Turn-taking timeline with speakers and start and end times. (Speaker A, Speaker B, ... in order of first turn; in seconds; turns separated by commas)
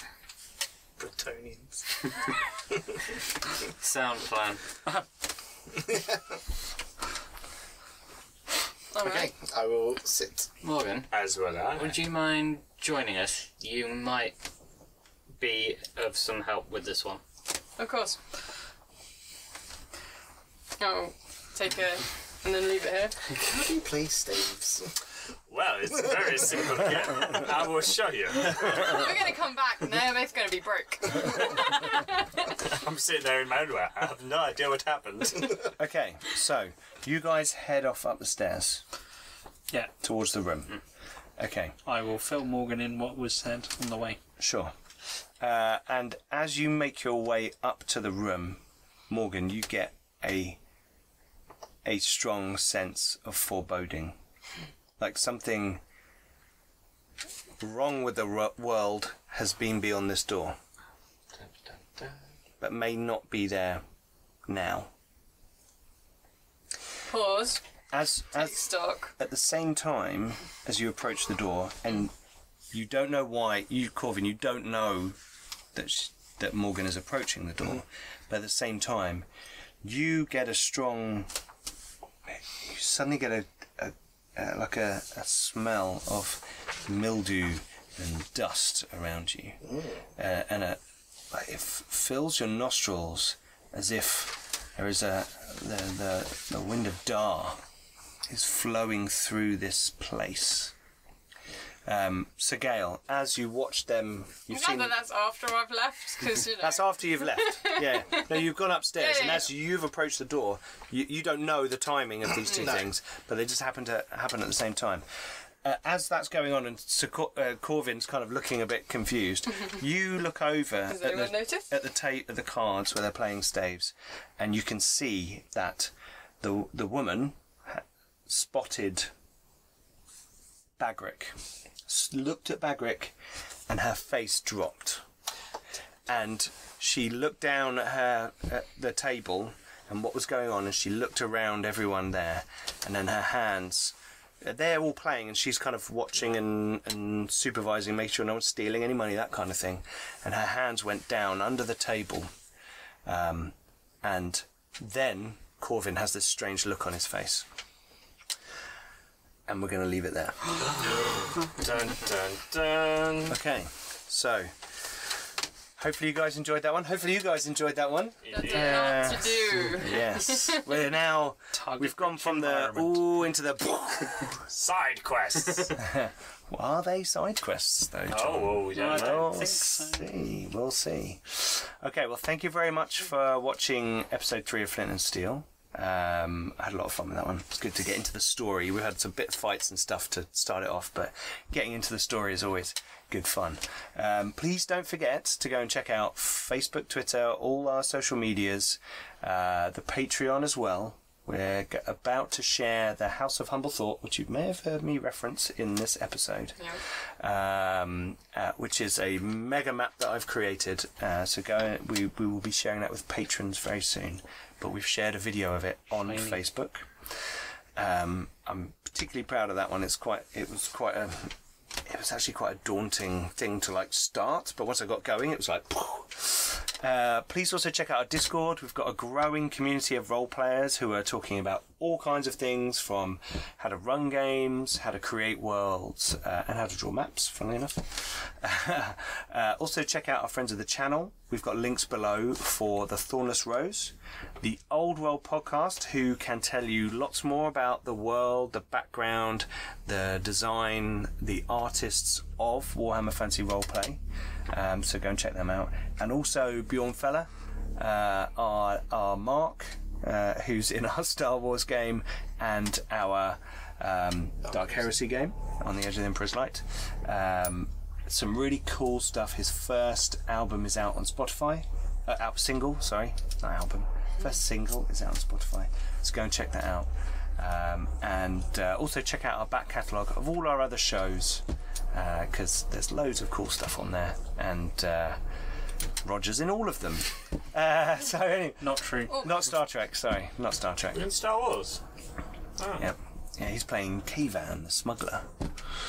Speaker A: 1.0-1.9, Speaker B: 3.8-4.6, Speaker A: 5.8-6.4, Speaker C: 8.9-9.3, Speaker A: 9.0-10.5, Speaker B: 10.6-11.1, Speaker D: 11.1-12.0, Speaker B: 11.7-14.4, Speaker B: 15.4-17.2, Speaker C: 17.8-18.2, Speaker C: 20.8-23.2, Speaker A: 23.4-24.9, Speaker D: 25.5-29.1, Speaker C: 28.8-32.4, Speaker D: 32.6-35.7, Speaker E: 35.6-38.8, Speaker E: 40.0-40.8, Speaker E: 41.4-41.8, Speaker F: 41.9-44.2, Speaker E: 44.4-44.7, Speaker E: 45.4-50.6, Speaker E: 51.9-54.2, Speaker E: 55.0-55.8, Speaker E: 57.6-60.6, Speaker D: 61.4-62.2, Speaker E: 62.6-63.9, Speaker E: 64.5-64.9, Speaker C: 67.1-67.6, Speaker E: 67.9-72.1, Speaker C: 68.3-69.1, Speaker E: 72.7-75.2, Speaker E: 75.7-79.3, Speaker E: 79.8-81.3, Speaker E: 82.5-89.6, Speaker A: 89.7-90.0, Speaker E: 90.2-97.6, Speaker E: 98.3-100.7, Speaker E: 101.8-104.9, Speaker C: 104.5-109.5, Speaker E: 106.3-115.0, Speaker A: 112.5-112.9, Speaker E: 115.6-129.1, Speaker C: 120.9-121.7, Speaker E: 130.8-133.1, Speaker E: 133.7-135.0, Speaker E: 136.1-152.3, Speaker E: 153.1-157.5, Speaker E: 159.5-160.6, Speaker D: 160.8-163.4, Speaker E: 163.3-164.5, Speaker E: 165.8-174.3, Speaker D: 168.2-169.1, Speaker C: 168.3-170.6, Speaker F: 171.5-173.1, Speaker D: 174.5-175.8, Speaker E: 175.8-206.6, Speaker D: 178.1-179.3, Speaker F: 178.7-180.2, Speaker E: 207.2-216.9, Speaker F: 216.1-216.4, Speaker E: 217.8-285.2, Speaker E: 286.0-291.0, Speaker F: 288.6-289.3, Speaker D: 290.9-291.8, Speaker E: 292.8-295.3